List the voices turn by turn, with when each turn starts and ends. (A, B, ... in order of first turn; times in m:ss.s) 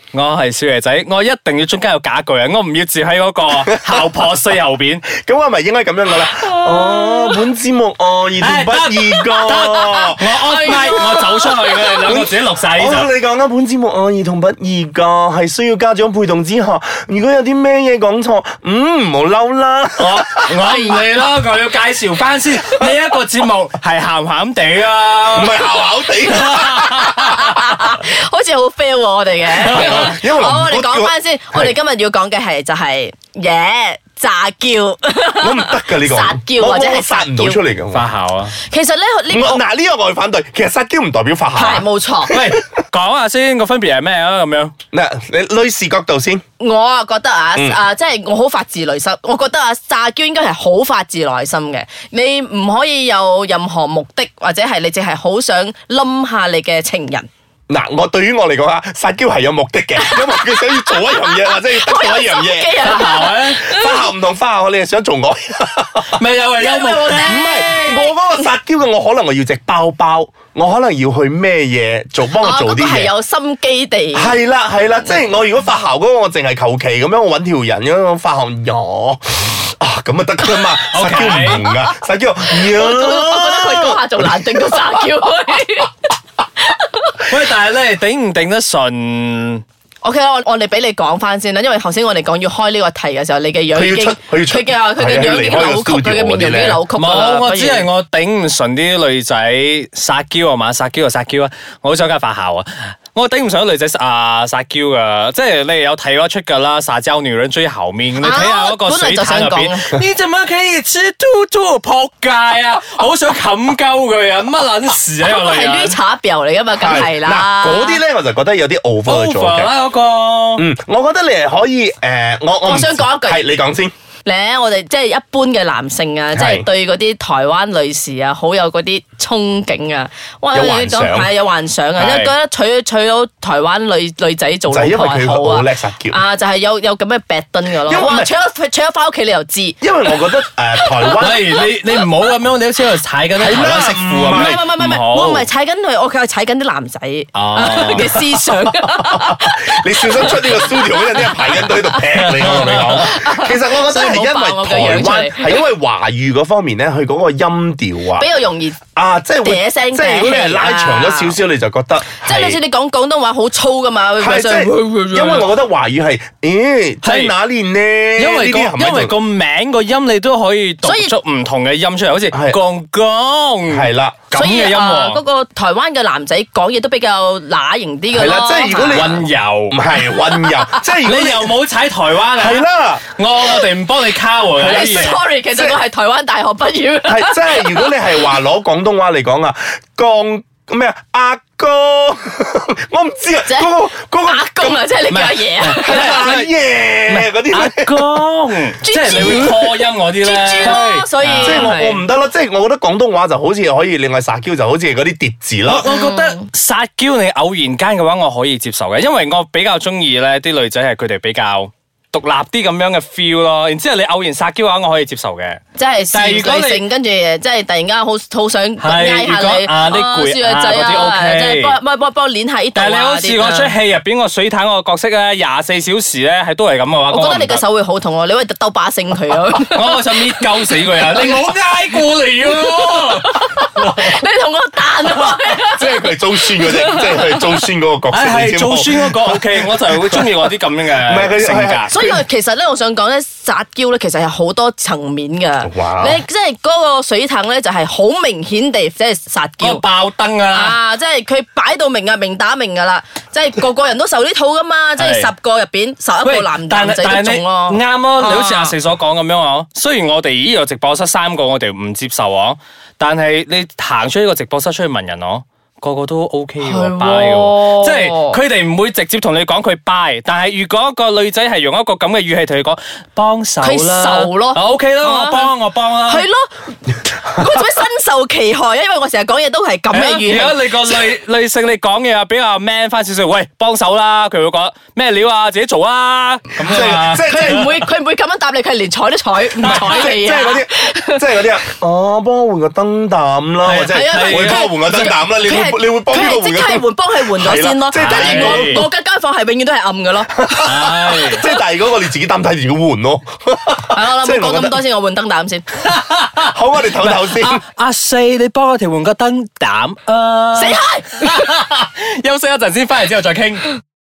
0:00.1-0:05.1 A
0:05.1-0:20.6 B
0:06.7-0:07.2 A
0:08.4-0:13.1 A
0:10.6-0:11.0 C
0:20.0-0:25.6 A
0:20.6-0:21.1 C
0:25.3-0:27.1 B
0:26.3-0:27.4 A
0:26.7-0:37.6 C
0:29.6-0:31.7 B
0:29.7-0:30.1 A
0:35.4-0:38.1 B
0:37.9-0:38.5 A
0:38.6-0:39.6 C
0:39.3-0:42.8 B
0:41.5-0:42.4 C
0:42.3-0:44.7 A
0:44.9-0:46.4 B
0:46.6-0:57.3 C
0:57.7-1:02.9 B
1:00.0-1:04.0 C
1:02.8-1:03.6 A
1:03.5-1:13.1 B
1:06.1-1:08.0 A
1:06.6-1:08.0 C
1:12.3-1:14.4 C
1:14.1-1:25.0 B
1:20.9-1:21.6 A
1:21.6-1:25.9 C
1:26.6-1:27.3 C
1:27.2-1:29.6 A
1:30.0-1:37.9 C
1:33.7-1:36.8 B
1:37.0-1:56.0 A
1:48.2-1:49.9 C
1:55.2-1:58.0 C
1:56.8-1:59.7 B
1:59.0-2:00.6 A
2:00.6-2:03.9 B
2:02.6-2:03.4 C
2:04.2-2:20.2 C
2:06.3-2:06.7 B
2:10.5-2:11.3 B
2:12.0-2:12.3 A
2:14.7-2:16.2 B
2:17.8-2:18.3 B
2:19.8-2:21.5 B
2:20.8-2:21.2 C
2:21.2-2:25.5 A
2:23.4-2:24.6 B
2:24.2-2:32.0 C
2:27.3-2:28.1 A
2:28.0-2:38.3 B
2:32.1-2:33.1 A
2:32.9-2:35.6 C
2:38.1-2:38.8 C
2:38.9-2:42.6 B
2:39.4-2:41.4 C
2:42.1-2:45.5 C
2:44.2-2:49.1 B
2:47.0-2:47.3 A
2:48.2-2:55.2 A
2:50.8-2:51.1 C
2:52.3-2:52.6 B
2:53.7-2:54.3 B
2:54.3-2:59.1 C
2:58.1-3:01.5 B
2:58.9-2:59.8 A
3:00.2-3:00.8 C
3:01.0-3:05.2 A
3:02.3-3:03.0 B
3:04.6-3:08.0 C
3:05.5-3:05.8 B
3:07.1-3:14.8 B
3:13.5-3:13.7 C
3:14.2-3:16.2 C
3:15.1-3:16.5 A
3:15.8-3:18.0 B
3:17.1-3:21.7 A
3:18.8-3:22.0 C
3:19.1-3:19.7 B
3:21.4-3:25.9 B
3:25.6-3:35.6 A
3:25.8-3:26.4 C
3:35.8-3:43.7 C
3:36.1-3:36.8 A
3:38.8-3:41.8 A
3:42.7-3:47.6 A
3:47.1-3:50.0 C
3:49.7-3:54.1 A
3:53.0-3:57.6 C
3:55.6-4:00.4 B
3:58.1-4:01.9 A
4:01.0-4:02.2 B
4:01.9-4:09.8 C
4:05.6-4:06.2 B
4:09.6-4:10.8 A
4:10.5-4:18.7 C
4:15.0-4:15.3 A
4:16.2-4:36.2 A
4:26.6-4:28.4 C
4:33.6-4:35.5 C
4:36.0-4:41.0 C
4:39.9-4:47.6 A
4:46.6-4:47.7 B
4:46.7-4:51.5 C
4:49.6-4:50.1 A
4:49.6-4:58.9 B
4:53.6-4:54.8 A
4:53.8-5:00.7 C
4:57.9-4:58.8 A
5:00.4-5:04.8 B
5:00.6-5:01.4 A
5:03.9-5:05.7 C
5:05.8-5:13.8 A
5:06.4-5:07.6 B
5:10.5-5:11.3 C